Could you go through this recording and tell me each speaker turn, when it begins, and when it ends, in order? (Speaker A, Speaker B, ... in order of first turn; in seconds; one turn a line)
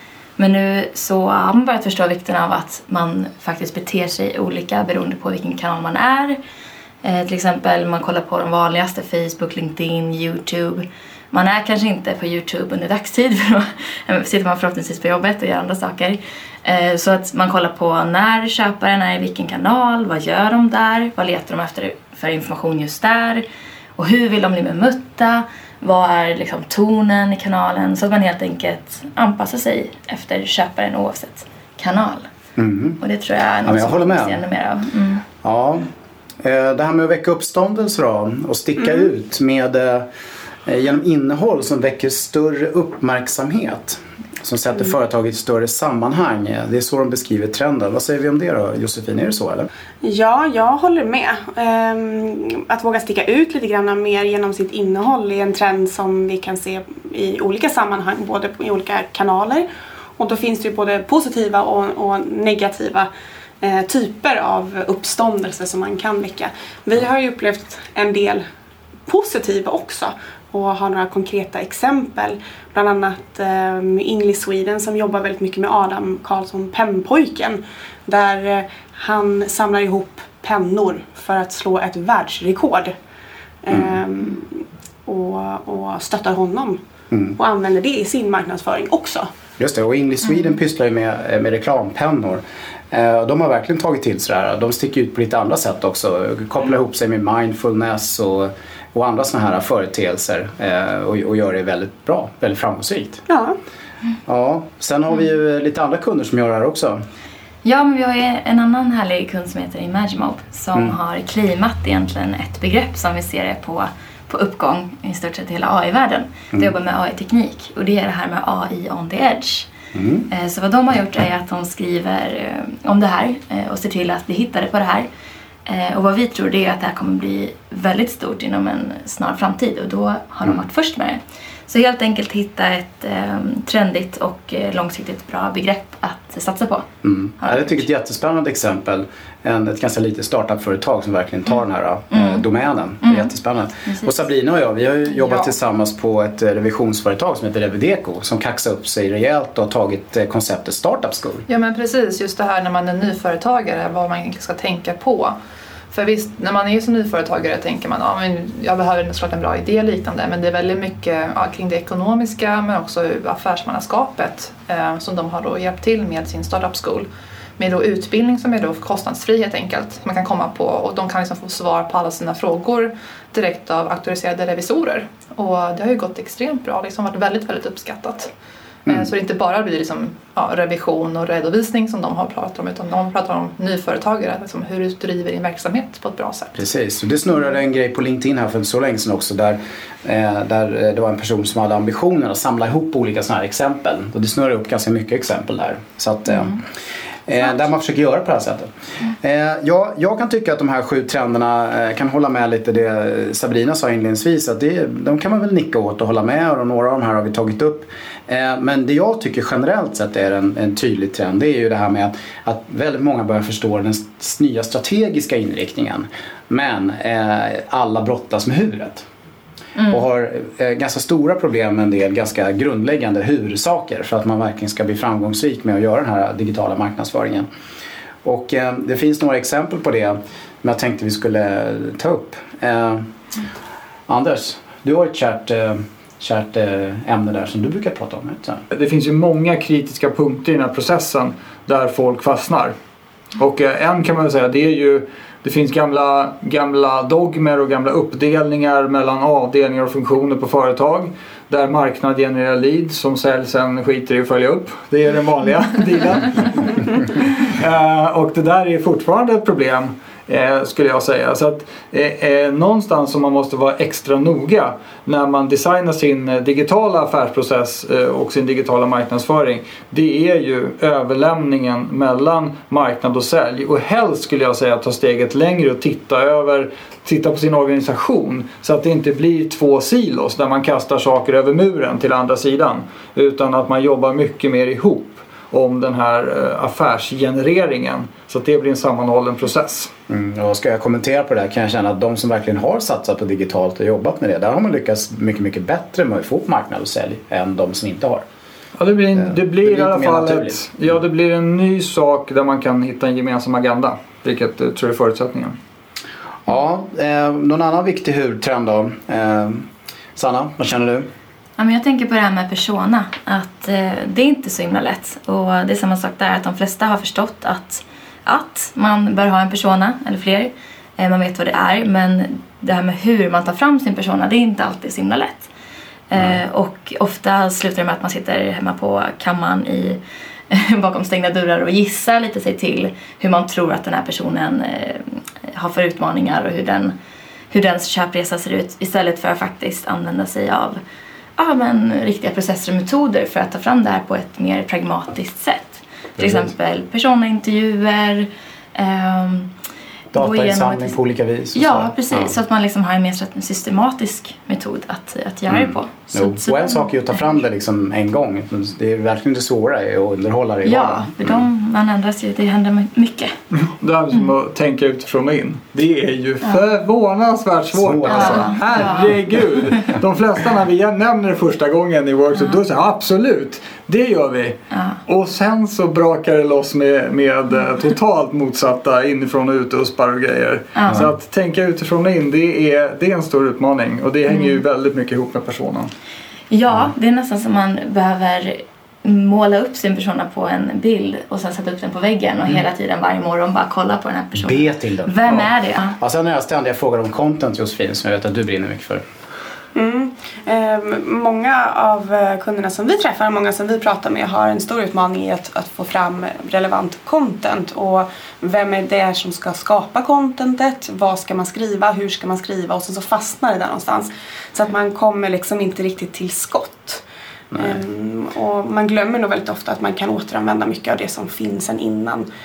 Speaker A: 0.4-6.4
Speaker A: 7.0-23.4
Speaker A: 24.0-32.2
Speaker B: 32.6-33.0
Speaker A: 33.0-35.3
Speaker B: 33.6-34.4
Speaker B: 35.4-35.9
Speaker B: 36.4-40.1
Speaker B: 40.7-49.7
Speaker C: 50.0-59.7
Speaker C: 60.2-63.1
Speaker C: 63.6-68.4
Speaker C: 69.1-82.9
Speaker C: 83.6-86.8
Speaker B: 87.1-87.4
Speaker C: 87.4-89.3
Speaker B: 89.6-103.2
Speaker C: 103.3-103.5
Speaker B: 104.3-107.0
Speaker A: 107.6-119.7
Speaker B: 119.9-120.3
Speaker A: 120.3-125.1
Speaker A: 125.7-136.9
Speaker B: 137.0-151.5
Speaker A: 137.4-137.8
Speaker A: 142.1-142.5
Speaker A: 143.0-143.3
Speaker A: 143.9-144.1
Speaker D: 151.5-155.4
Speaker D: 155.9-167.1
Speaker D: 167.6-178.3
Speaker D: 178.9-186.6
Speaker B: 186.6-196.6
Speaker B: 197.3-198.7
Speaker B: 199.2-219.1
Speaker B: 219.9-227.5
Speaker B: 228.2-233.1
Speaker B: 234.1-238.6
Speaker E: 238.7-242.8
Speaker E: 243.4-289.9
Speaker B: 290.1-298.2
Speaker E: 298.8-305.6
Speaker B: 299.2-300.6
Speaker B: 306.5-311.1
Speaker A: 311.6-325.5
Speaker A: 326.1-336.9
Speaker A: 337.5-340.8
Speaker A: 341.4-349.5
Speaker B: 346.2-346.5
Speaker B: 350.1-352.3
Speaker A: 350.1-350.9
Speaker A: 351.6-357.4
Speaker B: 355.5-361.4
Speaker A: 360.6-363.4
Speaker E: 363.6-385.9
Speaker B: 367.7-368.9
Speaker A: 368.1-369.1
Speaker A: 374.7-375.0
Speaker A: 380.8-381.1
Speaker A: 384.3-384.6
Speaker A: 386.5-396.0
Speaker B: 394.4-399.0
Speaker C: 399.8-417.0
Speaker B: 417.5-417.8
Speaker C: 417.6-422.3